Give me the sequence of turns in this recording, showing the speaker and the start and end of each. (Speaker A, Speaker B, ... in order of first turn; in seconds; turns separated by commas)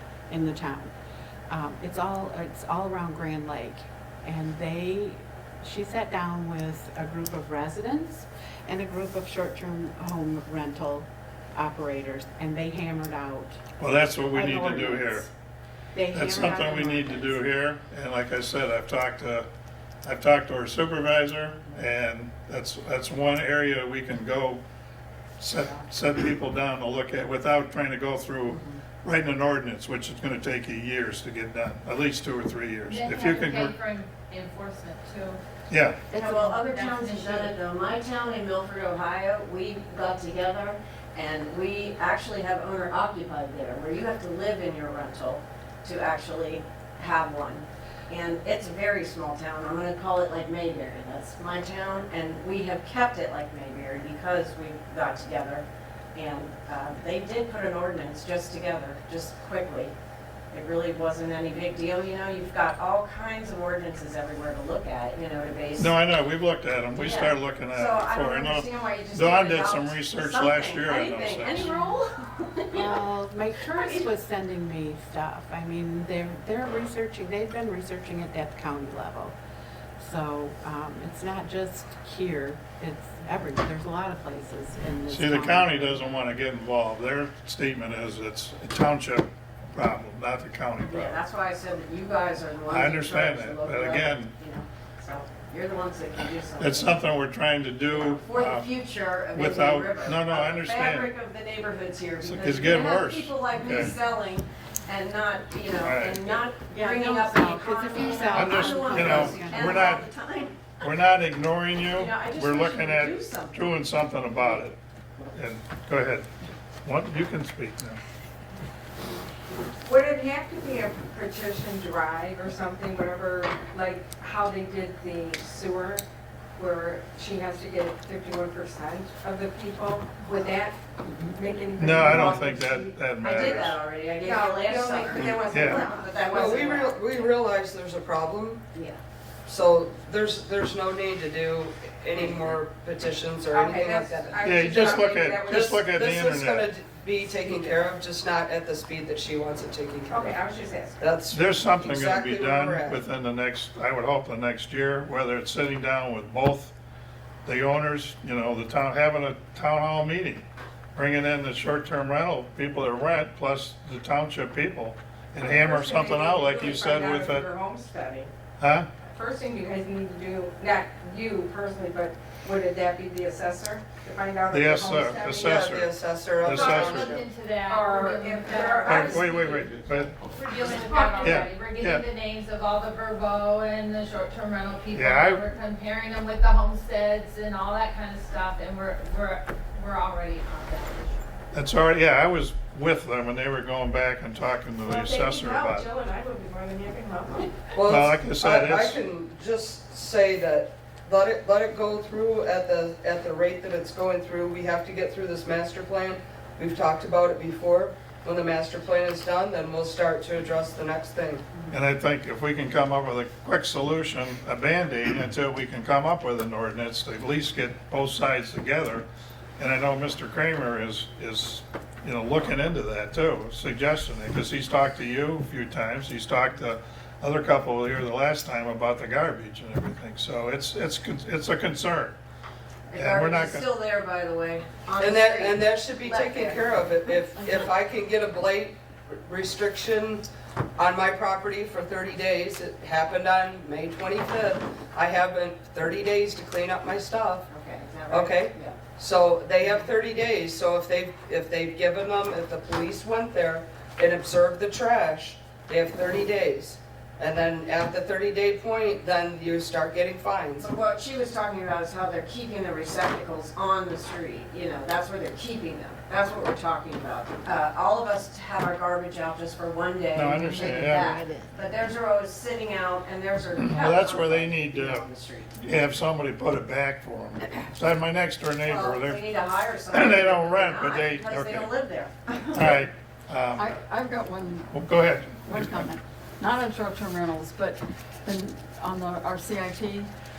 Speaker A: 0.3-0.9, Speaker A: 1.5-13.6, Speaker B: 13.8-15.3, Speaker A: 14.3-15.3, Speaker A: 15.9-17.4, Speaker B: 16.1-19.5, Speaker B: 20.0-24.6, Speaker B: 25.4-33.7, Speaker C: 32.9-35.4, Speaker B: 35.7-36.0, Speaker D: 36.1-59.9, Speaker C: 36.1-37.5, Speaker D: 60.5-65.9, Speaker B: 65.8-71.7, Speaker D: 66.9-73.0, Speaker A: 72.7-79.3, Speaker D: 73.7-74.0, Speaker A: 80.0-86.2, Speaker B: 85.1-91.2, Speaker D: 90.8-97.0, Speaker B: 92.7-94.3, Speaker B: 96.6-98.7, Speaker D: 97.9-110.9, Speaker B: 99.3-101.1, Speaker B: 102.2-103.9, Speaker B: 105.8-106.4, Speaker A: 106.7-110.0, Speaker B: 108.3-110.0, Speaker B: 110.8-114.8, Speaker D: 111.9-113.8, Speaker B: 115.3-116.3, Speaker B: 116.8-118.0, Speaker E: 119.8-126.0, Speaker E: 126.6-133.4, Speaker B: 131.8-133.8, Speaker D: 133.2-137.4, Speaker E: 134.2-136.8, Speaker B: 135.5-135.9, Speaker F: 136.4-138.6, Speaker D: 138.7-139.0, Speaker F: 139.4-144.3, Speaker D: 142.2-142.5, Speaker E: 143.5-146.0, Speaker B: 144.4-146.7, Speaker F: 145.5-150.3, Speaker E: 150.1-151.3, Speaker F: 151.0-153.0, Speaker B: 151.3-156.7, Speaker B: 157.4-167.5, Speaker E: 165.4-168.3, Speaker B: 168.6-168.9, Speaker E: 169.0-175.8, Speaker B: 174.5-177.2, Speaker C: 175.0-175.5, Speaker F: 175.5-177.2, Speaker E: 176.5-177.1, Speaker C: 176.5-179.2, Speaker E: 177.7-179.9, Speaker B: 178.8-180.1, Speaker C: 180.2-191.3, Speaker E: 180.6-181.5, Speaker B: 181.2-182.0, Speaker B: 184.9-185.4, Speaker B: 191.5-195.9, Speaker E: 194.8-195.1, Speaker D: 194.9-197.5, Speaker F: 197.7-211.5, Speaker B: 197.8-199.0, Speaker B: 211.7-219.1, Speaker B: 219.6-232.2, Speaker D: 232.9-236.9, Speaker B: 232.9-233.7, Speaker F: 235.0-247.5, Speaker G: 236.9-237.7, Speaker D: 247.5-248.9, Speaker F: 248.1-260.7, Speaker D: 260.6-275.5, Speaker B: 270.1-271.2, Speaker B: 273.6-275.0, Speaker B: 275.6-279.4, Speaker D: 278.6-282.8, Speaker B: 279.9-281.7, Speaker B: 282.5-283.7, Speaker G: 283.6-284.8, Speaker B: 284.7-285.9, Speaker G: 285.5-290.1